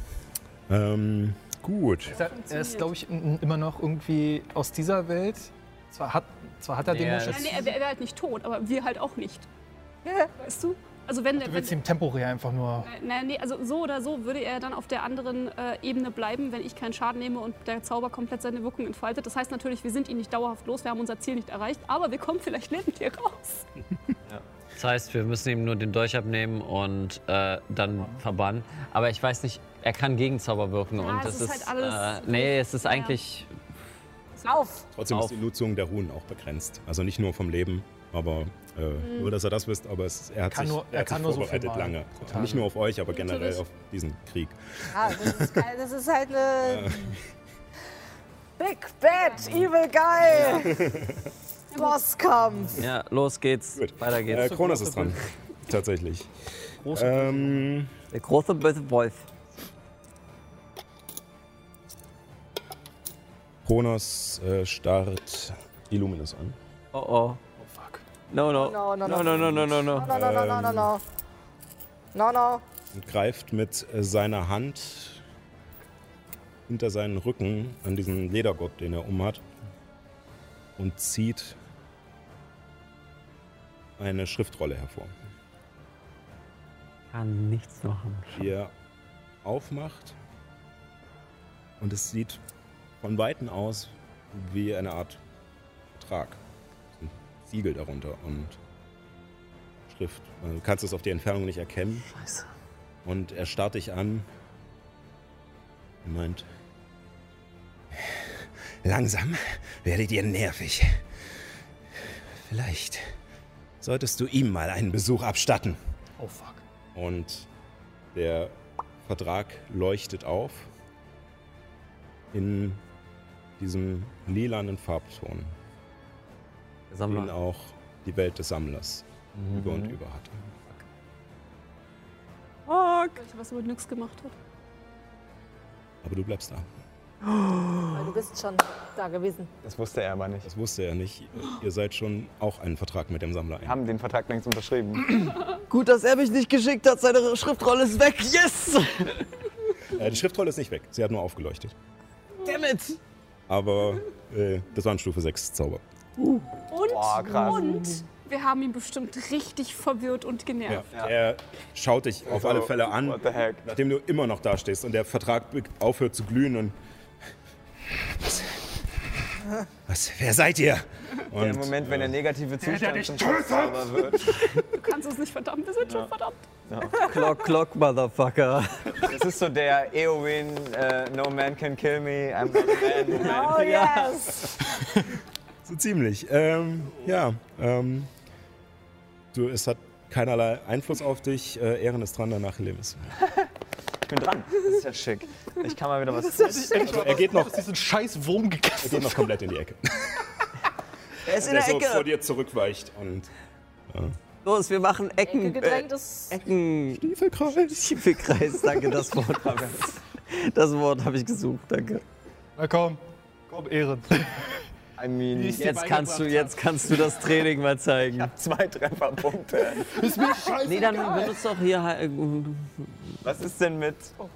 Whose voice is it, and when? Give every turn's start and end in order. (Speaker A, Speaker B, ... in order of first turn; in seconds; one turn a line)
Speaker A: 0.7-2.2
Speaker B: 2.1-7.7
Speaker C: 2.1-2.9
Speaker D: 6.8-7.6
Speaker C: 7.3-9.4
Speaker E: 10.0-10.3
Speaker C: 10.4-11.8
Speaker B: 11.4-12.9
Speaker C: 12.8-23.6
Speaker D: 24.8-33.5
Speaker C: 30.9-33.2
Speaker C: 34.3-34.6
Speaker E: 34.5-34.8
Speaker A: 35.0-45.6
Speaker D: 35.1-35.4
Speaker C: 39.0-39.3
Speaker B: 40.5-42.7
Speaker C: 43.1-43.6
Speaker E: 44.9-47.1
Speaker A: 46.6-47.2
Speaker E: 48.6-50.8
Speaker D: 50.2-50.7
Speaker A: 50.4-51.3
Speaker C: 51.7-52.0
Speaker E: 51.7-52.8
Speaker D: 52.8-55.1
Speaker A: 53.8-57.9
Speaker B: 56.8-57.6
Speaker D: 58.1-59.3
Speaker A: 63.6-66.6
Speaker D: 66.9-67.4
Speaker B: 67.6-68.0
Speaker D: 68.3-70.1
Speaker E: 68.5-71.0
Speaker A: 70.0-70.9
Speaker E: 72.1-72.6
Speaker A: 72.9-75.2
Speaker A: 76.7-79.4
Speaker A: 80.8-81.6
Speaker A: 84.0-85.1
Speaker D: 87.1-88.5
Speaker A: 88.3-88.7
Speaker A: 89.4-90.2
Speaker A: 91.8-92.4
Speaker A: 93.0-95.2
Speaker A: 95.9-96.4
Speaker A: 97.0-98.6
Speaker A: 99.9-102.1
Speaker D: 102.1-102.5
Speaker A: 103.0-104.3
Speaker A: 106.0-106.5
Speaker A: 107.9-111.0
Speaker A: 112.0-113.1
Speaker A: 113.8-115.8
Speaker B: 116.2-116.6
Speaker A: 116.9-117.5
Speaker A: 118.1-118.5
Speaker A: 119.0-120.7
Speaker A: 122.3-122.8
Speaker A: 123.6-125.5
Speaker D: 126.9-127.3
Speaker A: 127.1-130.4
Speaker F: 129.3-130.0
Speaker D: 132.7-133.2
Speaker C: 133.2-134.3
Speaker A: 136.0-136.7
Speaker E: 137.9-139.5
Speaker F: 139.6-140.5
Speaker A: 140.4-143.8
Speaker F: 143.6-145.2
Speaker D: 145.6-149.3
Speaker A: 149.9-151.7
Speaker D: 152.4-153.0
Speaker A: 153.5-155.8
Speaker D: 156.2-156.6
Speaker C: 156.7-160.9
Speaker F: 156.8-158.0
Speaker A: 160.7-166.8
Speaker F: 162.2-163.7
Speaker A: 167.9-168.6
Speaker A: 169.9-172.2
Speaker F: 171.3-174.6
Speaker B: 172.6-173.9
Speaker C: 174.7-176.4
Speaker F: 175.8-176.1
Speaker F: 176.7-177.2
Speaker D: 176.9-179.1
Speaker F: 178.9-184.1
Speaker E: 183.0-184.5
Speaker D: 183.2-184.4
Speaker A: 185.6-188.1
Speaker A: 189.3-193.1
Speaker F: 194.1-197.2
Speaker B: 196.2-199.3
Speaker A: 196.8-197.6
Speaker A: 198.8-200.3
Speaker D: 201.2-202.1
Speaker A: 201.3-203.3
Speaker A: 203.9-204.1
Speaker D: 204.4-212.0
Speaker E: 205.2-206.4
Speaker A: 206.9-208.2
Speaker F: 209.3-210.0
Speaker B: 212.6-214.3
Speaker F: 215.0-215.8
Speaker B: 215.3-217.0
Speaker D: 215.5-218.3
Speaker F: 218.0-220.0
Speaker B: 219.8-221.3
Speaker D: 220.6-222.9
Speaker F: 223.2-224.1